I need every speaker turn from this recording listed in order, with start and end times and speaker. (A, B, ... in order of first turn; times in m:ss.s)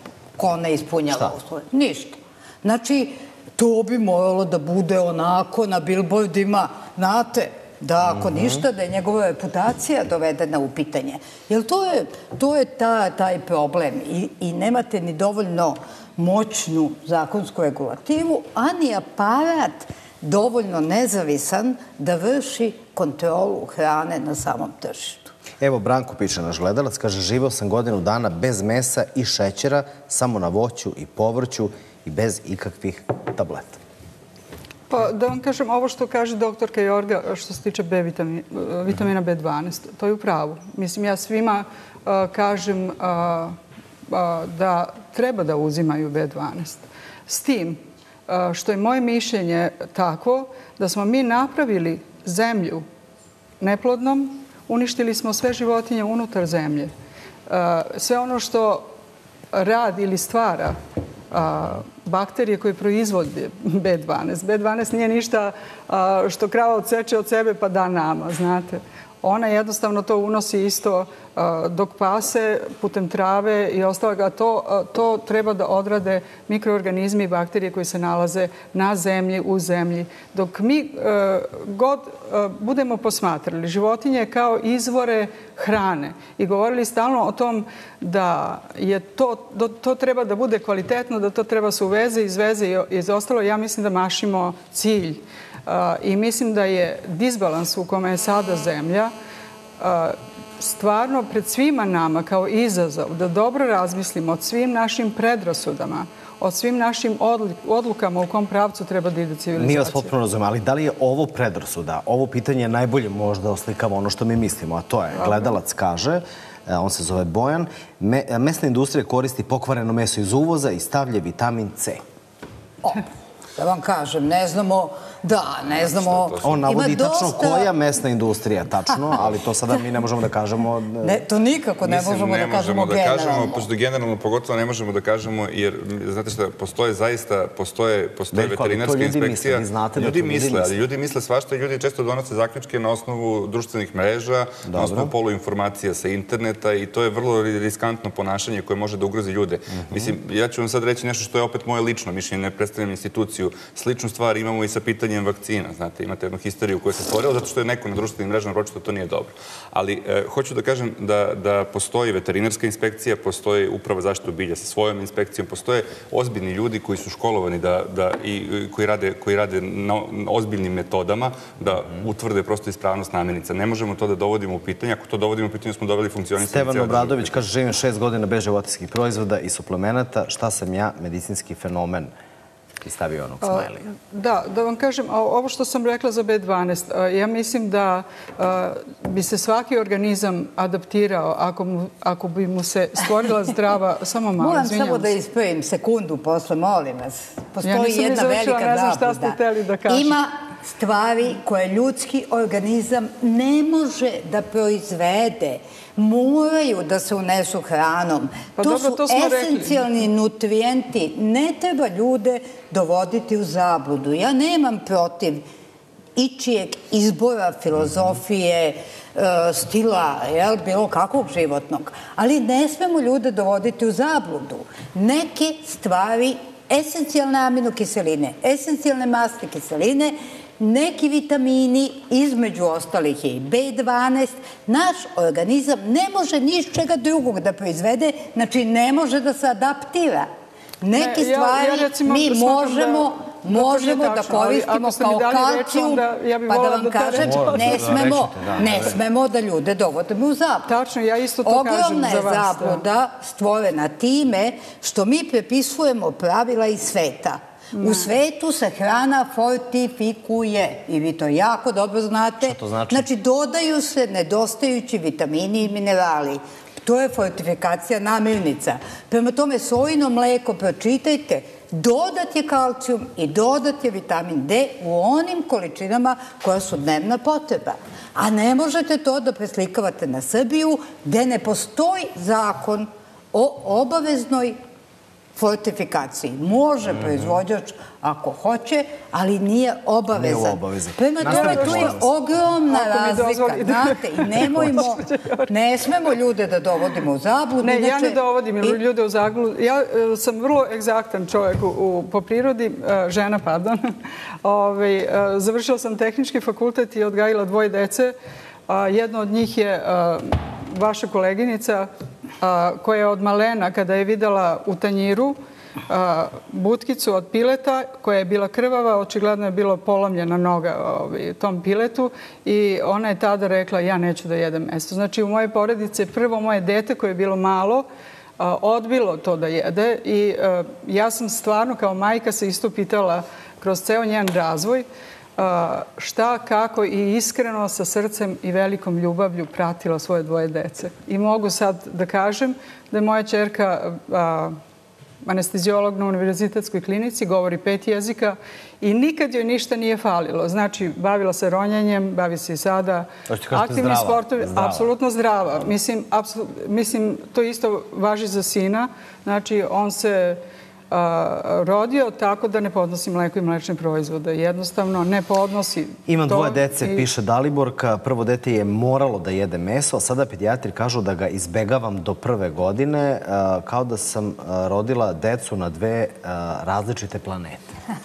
0:00.4-0:25.3 A
0:25.6-0:33.8 B
0:34.9-0:43.6 C
0:44.1-0:52.8 C
0:53.6-0:56.9 C
0:57.5-0:58.9 C
0:59.5-1:00.8 C
1:01.3-1:39.1 C
1:39.8-1:50.1 C
1:49.6-2:02.0 B
1:55.2-1:55.5 C
2:03.6-2:07.7 A
2:05.7-2:06.6 D
2:06.4-2:11.2 B
2:11.0-2:13.6 A
2:11.8-2:57.4 D
2:18.3-2:20.8 B
2:24.7-2:25.1 B
2:29.8-2:30.2 B
2:56.4-3:02.1 B
3:02.8-3:03.9 B
3:03.4-3:15.1 C
3:14.4-3:35.4 A
3:17.6-3:20.2 C
3:28.6-3:29.9 C
3:36.2-4:00.3 A
4:00.8-4:10.7 A
4:01.0-4:08.0 C
4:07.2-4:09.0 B
4:10.7-4:12.8 C
4:11.4-4:44.6 A
4:17.8-4:18.1 C
4:22.4-4:23.1 B
4:45.4-4:58.8 A
4:50.1-4:52.0 B
4:51.2-4:52.0 C
4:52.7-4:55.5 C
4:54.4-4:54.8 B
4:57.6-5:03.8 C
5:04.4-5:08.1 C
5:08.7-5:11.9 C
5:12.4-5:15.4 C
5:15.9-5:27.9 C
5:28.4-5:34.9 C
5:35.4-5:44.6 C
5:45.2-6:07.1 C
5:53.3-5:54.9 B
6:06.1-6:17.8 B